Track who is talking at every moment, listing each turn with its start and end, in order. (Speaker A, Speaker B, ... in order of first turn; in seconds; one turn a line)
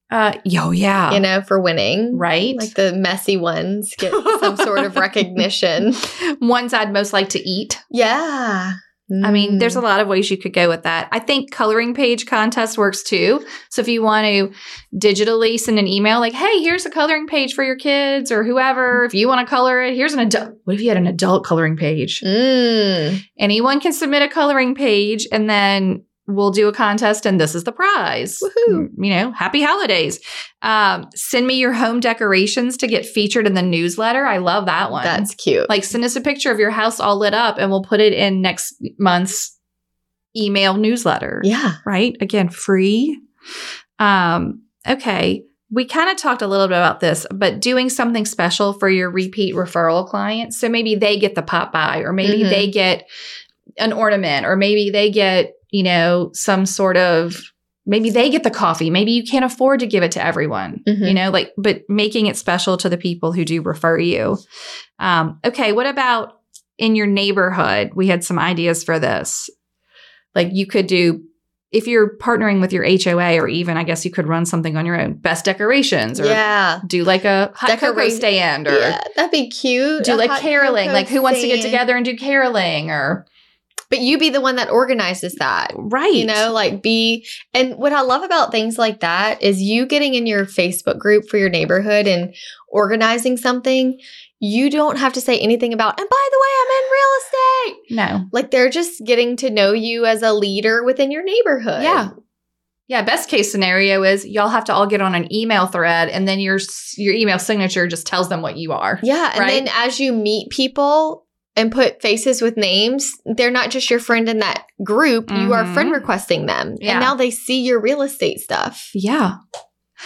Speaker A: 0.1-1.2
Speaker B: 1.1-6.0
Speaker A: 2.1-2.7
Speaker A: 4.0-5.0
Speaker A: 6.0-7.8
Speaker B: 7.9-9.8
Speaker A: 9.2-22.2
Speaker B: 22.2-23.2
Speaker A: 23.4-39.5
Speaker B: 28.4-28.9
Speaker B: 35.0-35.7
Speaker A: 40.3-43.2
Speaker B: 41.4-41.8
Speaker A: 44.0-53.0
Speaker B: 52.2-52.7
Speaker A: 53.8-64.4
Speaker B: 60.9-61.2
Speaker A: 65.0-69.5
Speaker A: 70.3-79.0
Speaker B: 76.2-76.8
Speaker B: 77.7-81.8
Speaker A: 80.0-83.2
Speaker B: 83.9-102.1
Speaker A: 85.7-86.5
Speaker A: 97.9-98.3
Speaker A: 101.8-102.1
Speaker A: 102.9-109.7
Speaker B: 109.0-118.9
Speaker A: 115.3-116.1
Speaker A: 116.8-117.1
Speaker A: 118.9-119.3